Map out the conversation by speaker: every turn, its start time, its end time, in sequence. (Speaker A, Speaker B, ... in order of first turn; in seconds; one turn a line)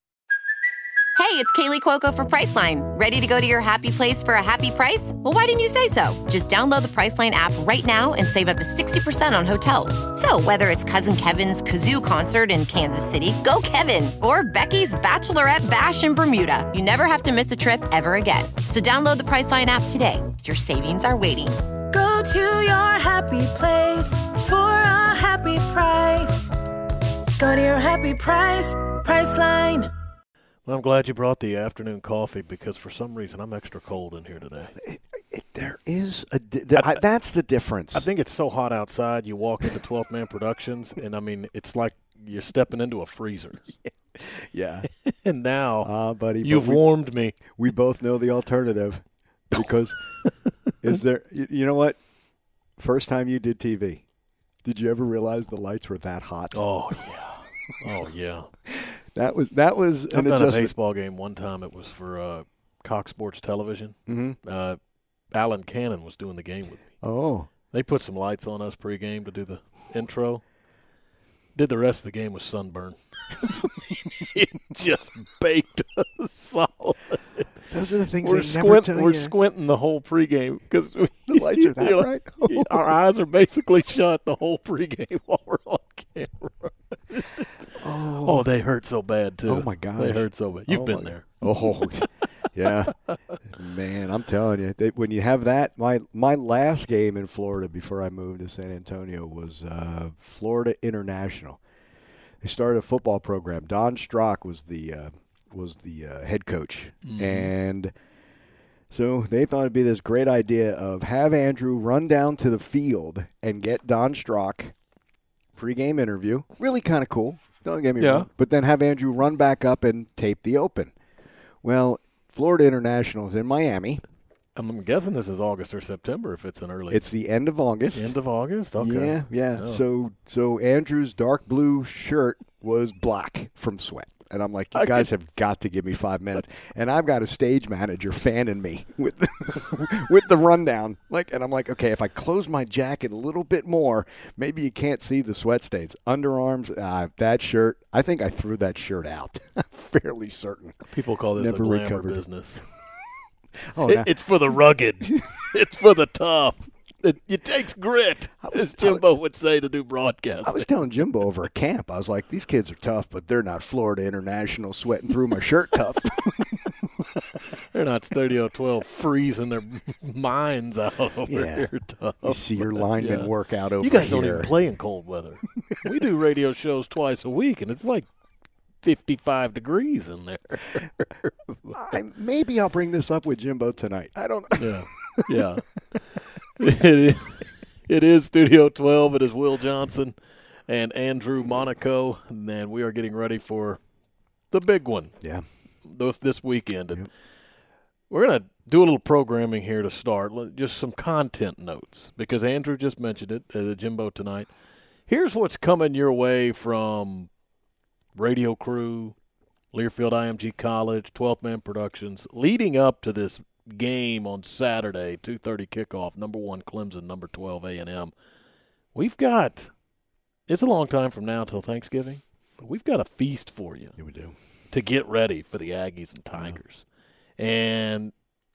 Speaker A: 1.1-21.6
Speaker B: 21.9-26.5
Speaker B: 27.4-29.9
Speaker C: 30.6-34.7
Speaker D: 34.8-38.1
Speaker C: 36.8-37.0
Speaker C: 37.9-43.7
Speaker D: 44.3-44.9
Speaker C: 45.0-45.9
Speaker D: 45.8-46.8
Speaker C: 46.4-47.4
Speaker D: 47.4-50.1
Speaker D: 50.8-52.0
Speaker D: 52.8-54.0
Speaker D: 54.6-56.6
Speaker C: 56.5-58.5
Speaker D: 58.7-60.7
Speaker C: 60.1-64.8
Speaker D: 64.1-64.4
Speaker C: 65.3-66.9
Speaker D: 67.0-67.5
Speaker C: 67.7-70.4
Speaker C: 71.5-77.6
Speaker D: 77.7-79.3
Speaker C: 78.2-87.7
Speaker D: 81.3-82.8
Speaker D: 87.8-88.5
Speaker C: 88.2-92.2
Speaker D: 89.5-101.6
Speaker D: 102.4-107.9
Speaker C: 107.0-107.5
Speaker D: 108.9-114.7
Speaker D: 115.5-120.9
Speaker C: 118.0-118.3
Speaker D: 121.6-124.0
Speaker C: 124.5-127.1
Speaker D: 126.9-128.1
Speaker C: 127.9-129.8
Speaker D: 128.8-152.7
Speaker C: 134.7-135.1
Speaker C: 150.9-152.6
Speaker D: 153.7-154.1
Speaker C: 153.8-160.7
Speaker D: 158.4-159.0
Speaker D: 160.4-166.9
Speaker C: 167.7-178.1
Speaker D: 171.3-171.7
Speaker D: 172.2-174.5
Speaker C: 178.8-181.8
Speaker D: 181.8-185.3
Speaker C: 184.6-190.2
Speaker C: 190.7-193.8
Speaker C: 194.5-197.1
Speaker D: 195.2-195.4
Speaker C: 198.1-204.5
Speaker C: 205.1-207.3
Speaker C: 208.1-209.2
Speaker C: 209.7-218.1
Speaker C: 218.9-219.7
Speaker C: 220.5-223.9
Speaker D: 224.0-224.3
Speaker C: 224.7-226.8
Speaker C: 227.4-228.1